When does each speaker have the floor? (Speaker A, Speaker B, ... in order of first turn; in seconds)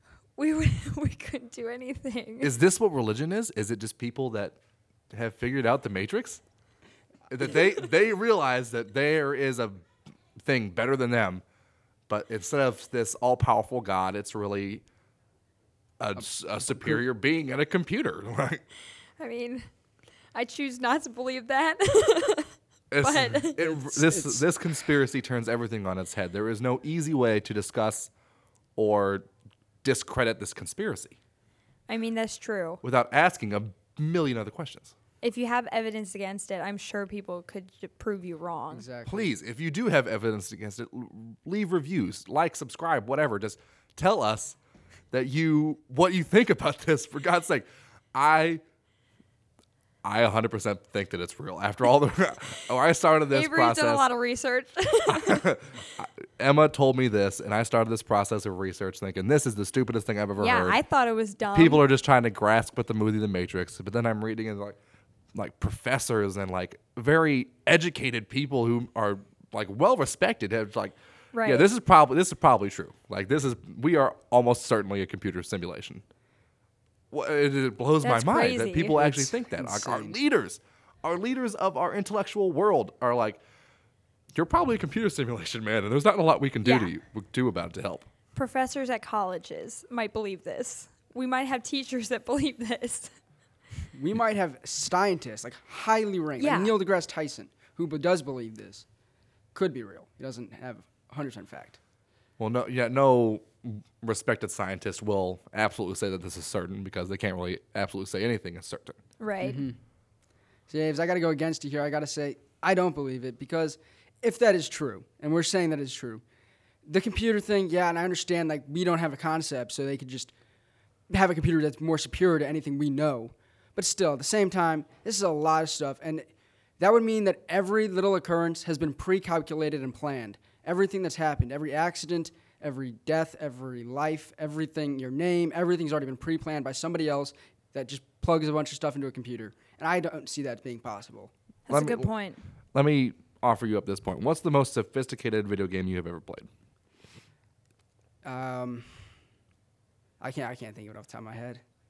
Speaker A: 0.4-2.5, 19.2-19.6, 20.3-23.7, 31.9-32.8, 35.2-38.9, 53.3-55.5, 60.4-61.9, 71.3-71.7, 78.0-79.0, 86.6-86.9, 88.3-93.1, 96.4-96.8, 109.2-109.7, 141.7-142.4
Speaker B: 2.4-4.6, 5.1-6.4, 7.3-9.8, 10.4-11.4, 12.1-14.8, 16.0-18.6, 22.9-28.1, 28.8-29.2, 29.8-31.2, 32.8-35.0, 39.1-44.6, 45.1-48.6, 50.0-54.1, 55.1-60.8, 61.5-64.8, 65.3-76.0, 77.1-83.4, 84.3-88.1, 102.4-109.0, 141.7-142.1, 142.7-146.5
Speaker C: 16.2-17.0, 23.6-24.5, 38.7-39.3, 78.9-80.2, 93.9-98.8, 99.5-101.8, 109.4-109.8, 110.7-116.2, 116.9-120.3, 121.1-126.3, 126.8-141.3, 148.2-148.9, 150.2-151.6